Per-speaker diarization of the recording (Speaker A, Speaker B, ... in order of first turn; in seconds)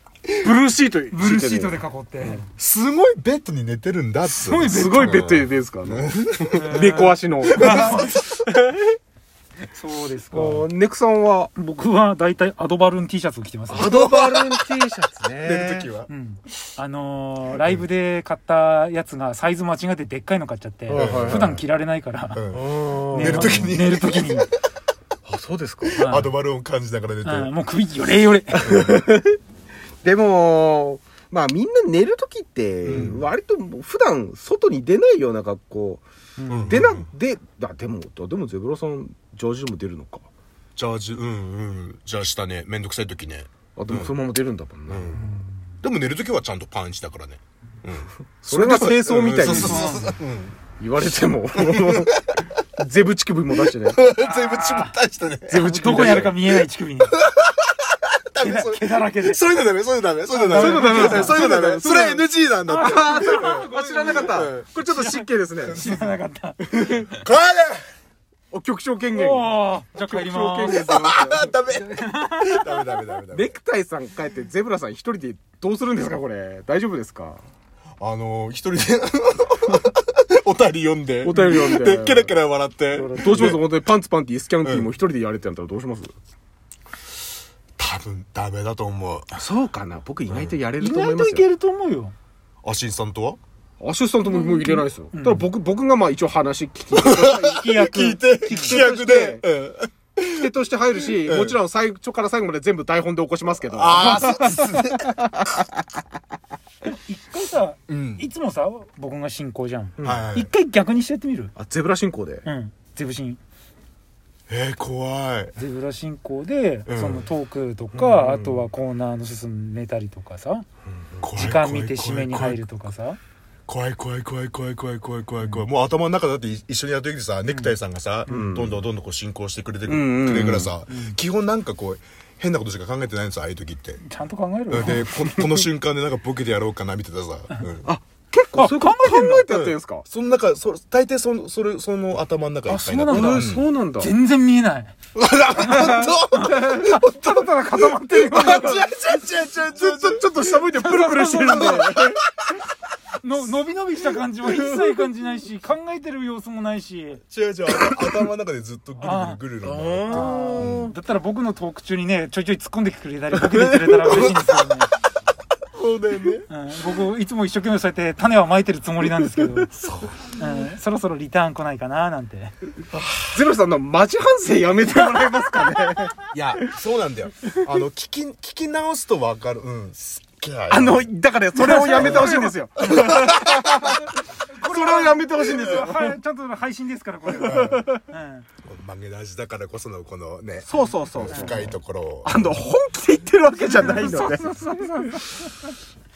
Speaker A: 0.4-2.4, 4.6-8.9, 10.3-11.5, 13.7-15.9, 20.9-21.5, 22.5-23.7, 25.2-26.0, 28.6-29.4, 30.0-36.0, 36.6-40.3, 43.8-45.2, 48.4-50.0, 50.8-54.0, 55.5-56.4, 60.5-62.3, 62.8-65.8, 66.6-67.1, 68.5-71.5, 73.3-77.4, 81.2-82.4, 83.1-86.1, 89.3-91.5, 93.8-97.8, 98.4-99.5, 100.2-105.5, 110.0-110.3, 111.5-112.4, 117.9-118.7, 128.3-128.8, 129.8-130.7, 137.8-140.1, 143.1-144.1, 145.7-148.9, 149.7-152.2, 159.6-160.9, 173.3-176.3, 180.7-186.2, 187.4-188.0, 190.6-191.7, 192.2-194.5
Speaker B: 1.1-2.5, 4.3-5.2, 6.5-8.2, 9.7-10.7, 11.5-14.0, 16.1-22.4, 23.1-24.5, 25.9-26.4, 27.2-28.9, 36.4-36.8, 45.2-45.5, 49.4-50.2, 54.2-55.0, 55.6-57.2, 58.4-59.5, 60.3-61.5, 62.7-64.4, 64.9-66.9, 69.1-70.8, 71.7-73.0, 82.9-83.6, 90.8-92.1, 94.3-95.5, 97.2-98.8, 106.9-111.5, 112.4-113.4, 115.5-120.6, 121.3-123.2, 127.5-127.7, 130.9-131.2, 134.0-135.4, 138.5-139.5, 142.7-144.9, 145.6-148.8, 153.2-157.2, 159.0-159.4, 160.1-164.9, 166.5-169.8, 170.3-172.5, 181.6-182.5, 184.4-188.4, 191.3-191.7, 193.6-195.5
Speaker C: 2.6-6.9, 7.5-8.3, 13.7-14.7, 15.4-16.1, 20.9-21.6, 22.3-24.5, 25.9-27.5, 32.8-33.3, 36.5-37.1, 40.8-44.1, 44.9-45.3, 45.8-50.6, 51.5-52.2, 53.7-56.4, 57.2-64.7, 65.6-66.2, 67.0-67.9, 70.7-73.5, 78.0-83.6, 84.6-84.9, 87.8-89.3, 90.3-90.6, 92.6-93.4, 96.9-100.5, 101.1-101.6, 103.7-105.1, 107.9-108.3, 110.0-110.5, 114.5-115.5, 116.9-117.3, 121.2-122.7, 123.7-134.0, 134.7-137.9, 139.5-143.6, 145.1-147.5, 148.2-152.2, 157.3-160.9, 163.5-164.6, 165.7-166.5, 169.8-170.1, 172.9-173.4, 176.3-181.1, 181.9-183.9, 187.4-187.8, 188.6-192.6